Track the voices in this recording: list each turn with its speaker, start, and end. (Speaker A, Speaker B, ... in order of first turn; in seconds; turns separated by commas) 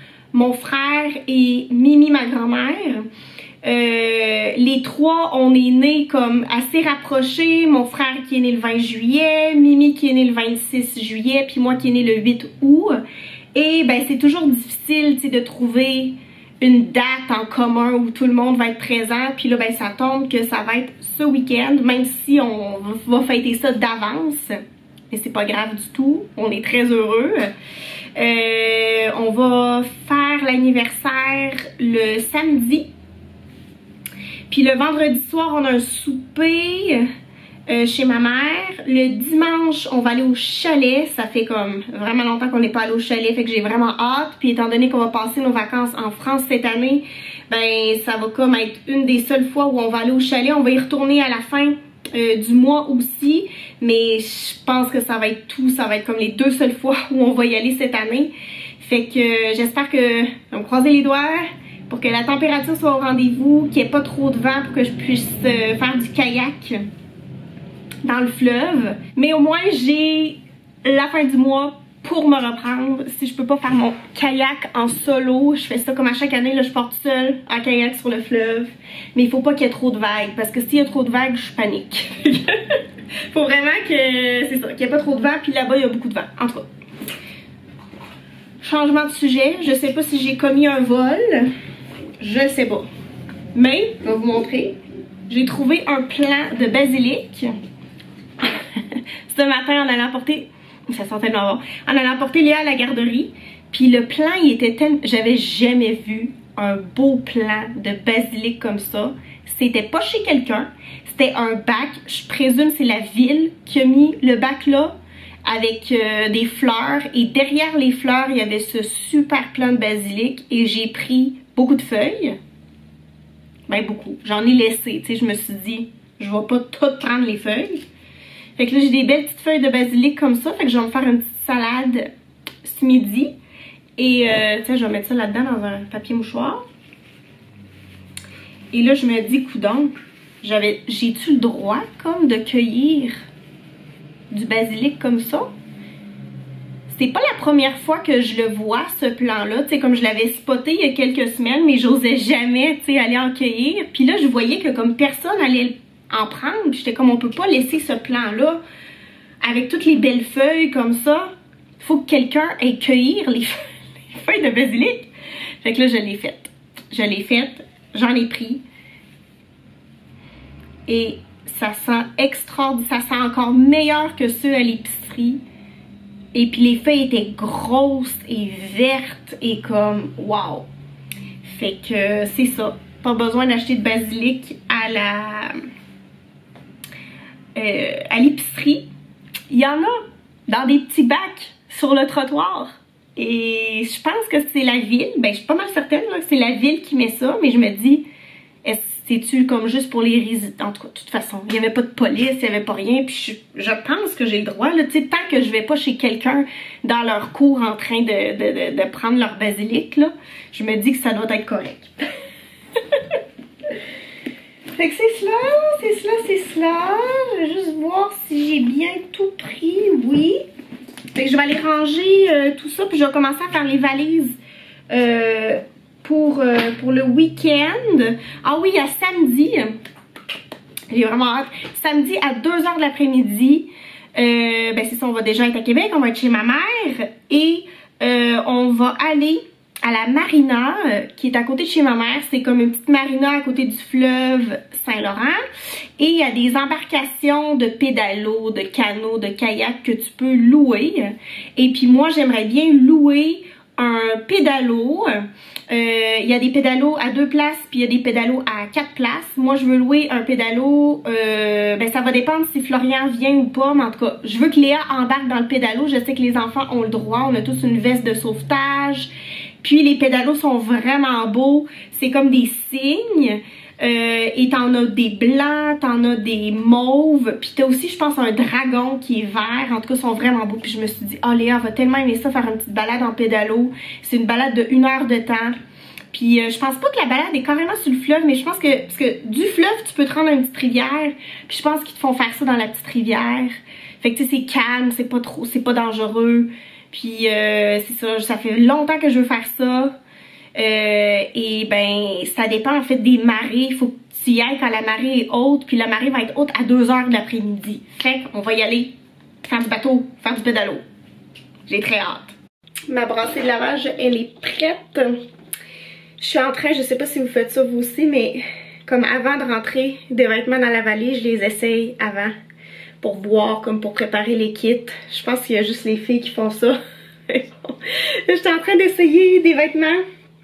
Speaker A: 0.3-3.1, Speaker A: 3.6-13.0, Speaker A: 13.5-24.6, Speaker A: 25.1-27.5, Speaker A: 28.1-32.8, Speaker A: 34.5-37.1, Speaker A: 37.7-66.8, Speaker A: 68.0-82.8, Speaker A: 83.3-86.6, Speaker A: 88.6-91.5, Speaker A: 92.2-92.9, Speaker A: 93.5-94.8, Speaker A: 95.3-97.5, Speaker A: 98.4-114.9, Speaker A: 115.4-122.4, Speaker A: 123.7-127.8, Speaker A: 128.6-132.1, Speaker A: 132.6-133.3, Speaker A: 134.0-136.6, Speaker A: 138.7-143.2, Speaker A: 144.3-145.5, Speaker A: 146.9-158.6, Speaker A: 159.4-163.6, Speaker A: 164.1-165.1, Speaker A: 165.6-168.6, Speaker A: 170.9-175.4, Speaker A: 176.3-180.7, Speaker A: 181.4-185.5, Speaker A: 187.5-188.9, Speaker A: 189.5-189.9, Speaker A: 190.5-198.0, Speaker A: 198.6-212.0, Speaker A: 212.9-213.2, Speaker A: 214.8-220.4, Speaker A: 221.1-224.3, Speaker A: 224.9-229.7, Speaker A: 230.9-245.4, Speaker A: 246.0-269.1, Speaker A: 269.6-285.5, Speaker A: 286.1-299.9, Speaker A: 300.5-310.8, Speaker A: 311.7-312.3, Speaker A: 312.9-315.2, Speaker A: 316.2-322.3, Speaker A: 323.0-330.0